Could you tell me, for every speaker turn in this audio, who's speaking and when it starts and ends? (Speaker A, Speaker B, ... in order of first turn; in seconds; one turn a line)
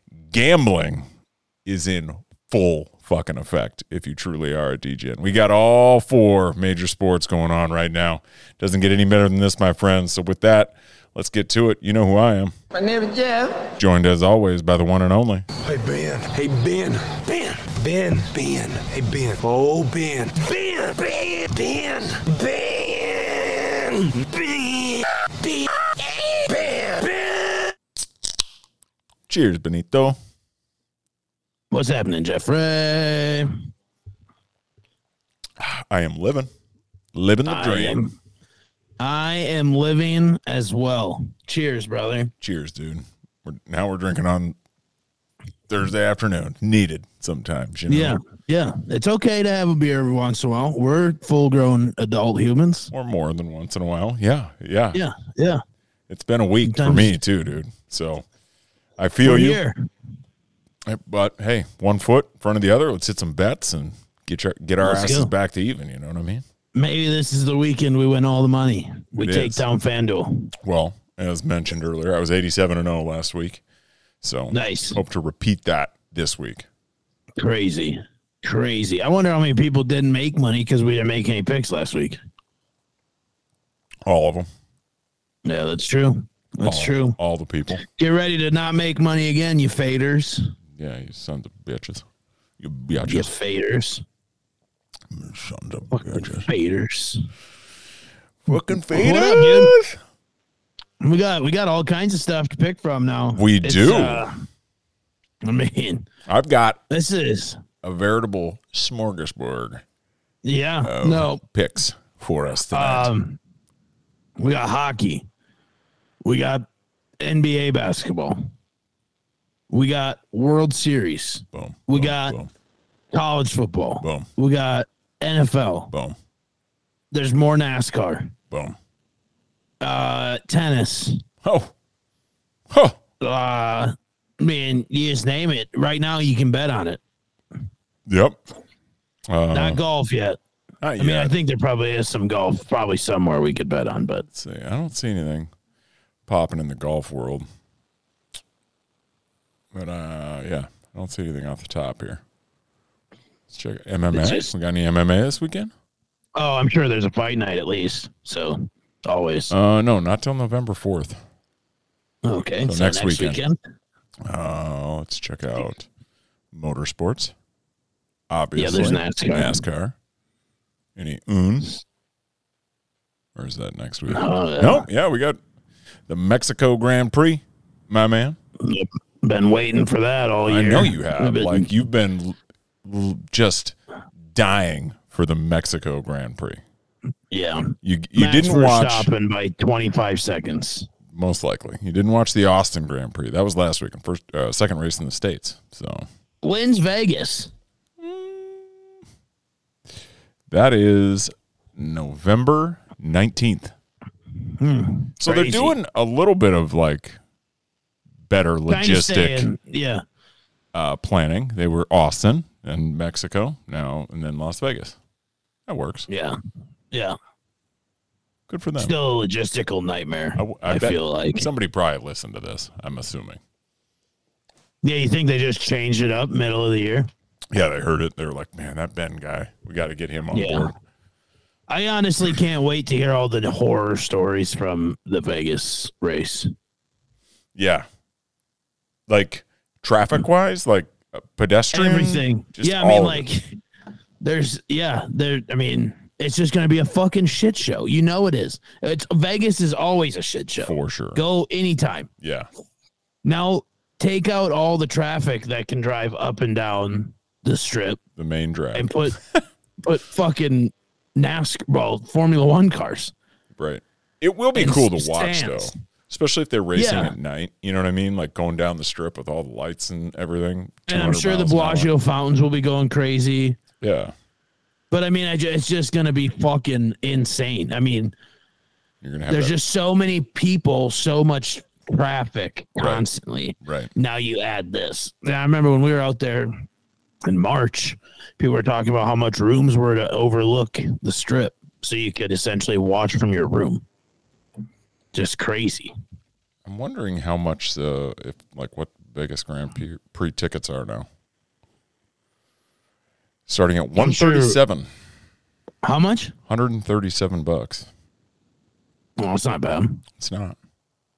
Speaker A: 0.2-1.1
Speaker A: 1.6-12.5
Speaker B: 12.7-13.7
Speaker A: 13.8-15.4
Speaker B: 15.6-27.7
Speaker A: 29.3-30.2
Speaker C: 31.7-33.6
Speaker A: 35.6-36.5
Speaker A: 37.1-38.0
Speaker C: 37.5-38.1
Speaker C: 39.0-42.3
Speaker A: 42.4-44.5
Speaker A: 45.7-48.2
Speaker C: 47.9-52.9
Speaker A: 52.9-55.0
Speaker C: 54.9-55.6
Speaker A: 56.1-58.2
Speaker C: 56.6-57.1
Speaker A: 59.0-59.6
Speaker C: 59.2-59.9
Speaker A: 60.9-66.4
Speaker C: 64.8-65.3
Speaker C: 66.7-70.5
Speaker A: 69.2-69.6
Speaker A: 70.6-73.6
Speaker A: 74.2-76.7
Speaker C: 74.5-75.0
Speaker C: 77.4-82.2
Speaker A: 84.0-84.5
Speaker C: 85.4-87.2
Speaker A: 86.6-87.8
Speaker C: 87.8-90.5
Speaker A: 90.7-92.0
Speaker A: 92.6-93.3
Speaker C: 93.0-94.0
Speaker A: 95.1-96.5
Speaker C: 95.9-97.2
Speaker A: 98.5-100.0
Speaker C: 98.5-99.7
Speaker C: 101.0-104.3
Speaker A: 103.3-104.2
Speaker C: 105.4-106.0
Speaker A: 106.3-106.8
Speaker C: 106.9-107.6
Speaker A: 107.8-109.8
Speaker C: 110.4-111.4
Speaker A: 110.8-113.1
Speaker C: 112.7-113.4
Speaker C: 114.4-115.2
Speaker C: 116.2-116.6
Speaker C: 117.2-118.5
Speaker C: 119.7-122.4
Speaker A: 121.5-122.5
Speaker C: 123.1-125.9
Speaker A: 124.0-124.3
Speaker A: 125.9-126.2
Speaker C: 127.1-128.3
Speaker A: 128.5-128.8
Speaker C: 129.8-131.2
Speaker A: 131.4-131.7
Speaker A: 132.7-133.0
Speaker C: 133.2-137.0
Speaker A: 138.1-138.4
Speaker A: 139.3-139.8
Speaker C: 139.5-140.4
Speaker A: 140.8-141.3
Speaker C: 141.0-144.2
Speaker A: 144.3-145.5
Speaker A: 146.3-147.4
Speaker A: 149.7-152.2
Speaker A: 153.5-155.7
Speaker C: 154.1-154.5
Speaker C: 156.3-159.5
Speaker A: 159.5-161.2
Speaker C: 162.2-163.6
Speaker A: 162.6-163.4
Speaker A: 164.2-165.9
Speaker A: 166.5-167.3
Speaker A: 168.3-169.9
Speaker C: 168.6-169.6
Speaker A: 170.9-171.7
Speaker A: 173.3-175.4
Speaker C: 174.1-174.8
Speaker A: 176.1-178.4
Speaker C: 178.6-181.7
Speaker A: 180.4-183.7
Speaker A: 184.3-186.6
Speaker C: 187.3-190.9
Speaker A: 187.8-189.1
Speaker A: 191.1-196.1
Speaker C: 196.4-197.5
Speaker A: 198.0-198.8
Speaker A: 200.5-203.7
Speaker C: 204.6-205.8
Speaker A: 205.2-207.2
Speaker A: 208.3-209.5
Speaker C: 208.7-210.0
Speaker A: 210.7-215.0
Speaker A: 215.7-216.1
Speaker C: 216.1-216.4
Speaker A: 218.5-218.9
Speaker C: 218.8-221.5
Speaker A: 220.4-223.4
Speaker C: 224.8-227.1
Speaker A: 227.5-230.7
Speaker C: 230.3-230.7
Speaker C: 231.7-236.5
Speaker A: 237.5-237.8
Speaker A: 239.1-243.3
Speaker C: 241.7-243.6
Speaker C: 244.2-252.1
Speaker A: 250.6-251.2
Speaker A: 252.2-252.5
Speaker C: 253.2-258.0
Speaker A: 258.2-259.4
Speaker C: 258.7-259.1
Speaker C: 259.8-263.1
Speaker A: 263.6-271.9
Speaker C: 264.5-265.7
Speaker C: 266.7-267.1
Speaker C: 270.9-273.6
Speaker A: 273.8-274.1
Speaker C: 274.9-278.1
Speaker A: 279.0-279.6
Speaker C: 279.3-286.5
Speaker A: 282.8-283.0
Speaker A: 283.6-283.9
Speaker C: 287.2-293.8
Speaker C: 295.1-295.9
Speaker A: 296.6-301.1
Speaker A: 303.5-304.9
Speaker C: 304.0-304.6
Speaker C: 305.8-306.3
Speaker A: 306.5-307.9
Speaker C: 309.2-310.0
Speaker A: 310.2-310.6